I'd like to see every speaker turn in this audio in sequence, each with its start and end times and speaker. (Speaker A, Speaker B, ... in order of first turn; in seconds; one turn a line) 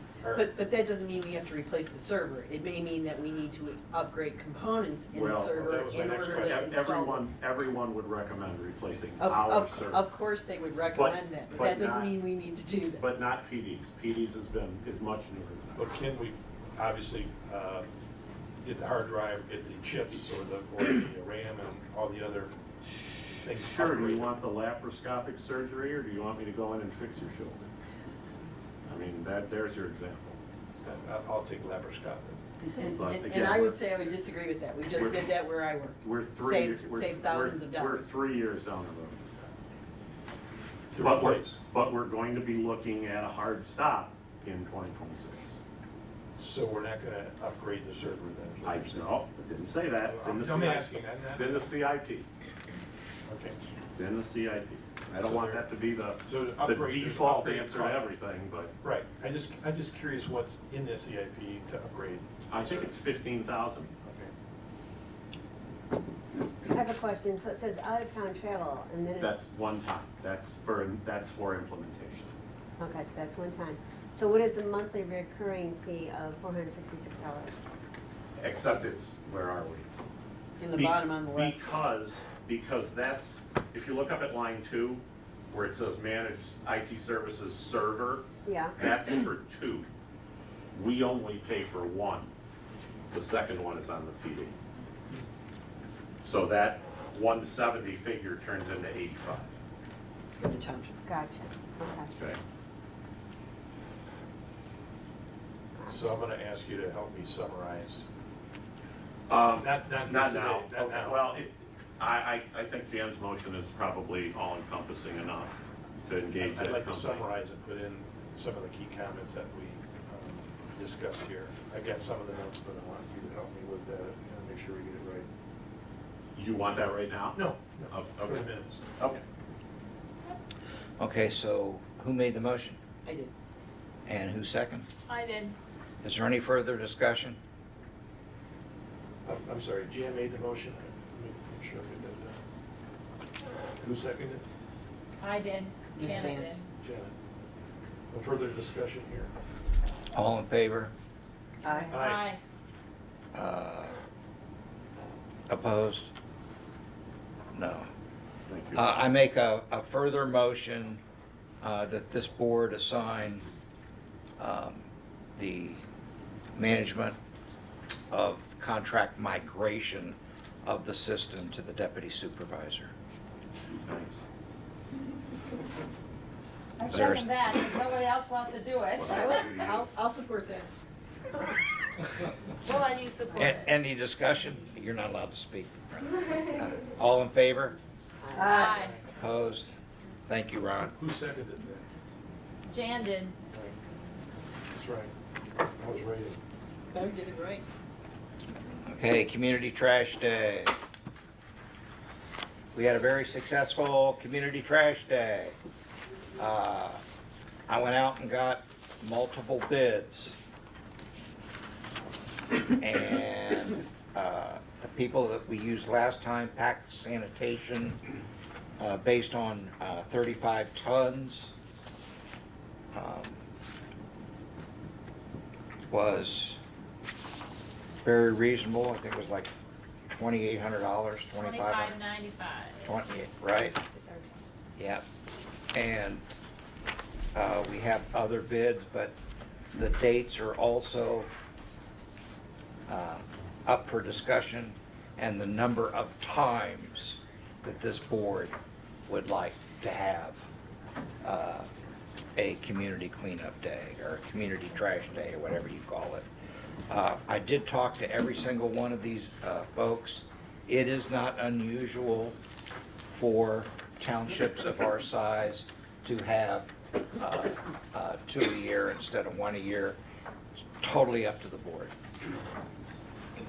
Speaker A: 0.2-0.5
Speaker B: 0.3-7.3
Speaker C: 5.1-10.1
Speaker A: 5.5-6.8
Speaker B: 9.2-13.1
Speaker C: 10.9-12.2
Speaker C: 13.0-15.8
Speaker A: 15.8-17.9
Speaker A: 18.6-22.5
Speaker A: 23.4-24.3
Speaker C: 23.7-27.6
Speaker C: 28.9-30.4
Speaker A: 30.8-32.4
Speaker B: 32.6-38.1
Speaker C: 33.0-33.8
Speaker C: 35.0-35.3
Speaker C: 36.0-39.2
Speaker A: 40.9-41.6
Speaker C: 41.0-45.5
Speaker A: 46.4-49.1
Speaker C: 48.6-52.3
Speaker A: 50.0-51.7
Speaker A: 53.3-53.6
Speaker C: 53.9-58.7
Speaker A: 55.2-55.7
Speaker A: 56.2-58.0
Speaker A: 58.8-62.9
Speaker C: 62.5-63.9
Speaker A: 64.0-64.3
Speaker D: 66.7-69.3
Speaker C: 69.2-72.3
Speaker D: 72.8-77.6
Speaker C: 78.4-80.0
Speaker B: 80.6-81.7
Speaker C: 80.7-89.9
Speaker D: 88.4-88.8
Speaker C: 90.7-92.3
Speaker C: 93.1-94.5
Speaker C: 96.2-99.5
Speaker B: 100.4-101.0
Speaker D: 101.1-102.1
Speaker A: 105.9-108.1
Speaker C: 109.3-117.3
Speaker A: 109.5-111.5
Speaker A: 116.4-125.3
Speaker C: 126.3-129.2
Speaker A: 127.3-128.8
Speaker E: 131.0-132.8
Speaker B: 133.0-133.3
Speaker E: 134.1-134.9
Speaker F: 135.1-135.6
Speaker E: 136.0-137.4
Speaker A: 139.2-142.4
Speaker A: 143.8-144.4
Speaker F: 145.2-146.6
Speaker B: 145.9-146.6
Speaker A: 146.8-147.1
Speaker A: 148.1-149.3
Speaker E: 150.1-150.9
Speaker B: 151.6-151.9
Speaker A: 151.9-152.3
Speaker F: 151.9-152.4
Speaker E: 153.3-154.0
Speaker E: 155.5-156.1
Speaker E: 157.5-157.9
Speaker C: 158.5-158.9
Speaker E: 158.7-161.0
Speaker E: 161.6-163.4
Speaker E: 164.4-165.8
Speaker E: 166.5-167.2
Speaker E: 168.1-172.9
Speaker C: 173.7-174.2
Speaker F: 176.8-179.5
Speaker E: 176.9-177.3
Speaker C: 179.0-179.8
Speaker B: 179.0-180.7
Speaker F: 182.6-183.7
Speaker E: 183.4-187.8
Speaker D: 188.2-188.5
Speaker B: 188.3-188.9
Speaker F: 188.4-189.0
Speaker E: 189.1-189.7
Speaker E: 190.3-190.9
Speaker A: 190.9-191.8
Speaker F: 192.7-193.3
Speaker A: 194.7-195.1
Speaker A: 195.7-196.4
Speaker B: 196.9-197.6
Speaker E: 198.8-200.7
Speaker E: 202.7-205.6
Speaker E: 206.4-207.0
Speaker E: 207.7-210.3
Speaker E: 212.8-218.1
Speaker E: 218.8-221.5
Speaker E: 222.9-223.4
Speaker E: 225.9-226.6
Speaker E: 228.0-229.5
Speaker E: 230.1-232.0
Speaker F: 231.4-232.8
Speaker E: 232.8-233.8
Speaker D: 233.9-234.2
Speaker E: 234.8-235.0
Speaker E: 235.7-236.2
Speaker E: 237.3-239.2
Speaker E: 239.7-241.3
Speaker E: 242.9-250.4
Speaker E: 251.2-251.7
Speaker E: 252.3-256.2
Speaker E: 256.9-262.4
Speaker E: 263.1-270.0
Speaker E: 270.8-271.9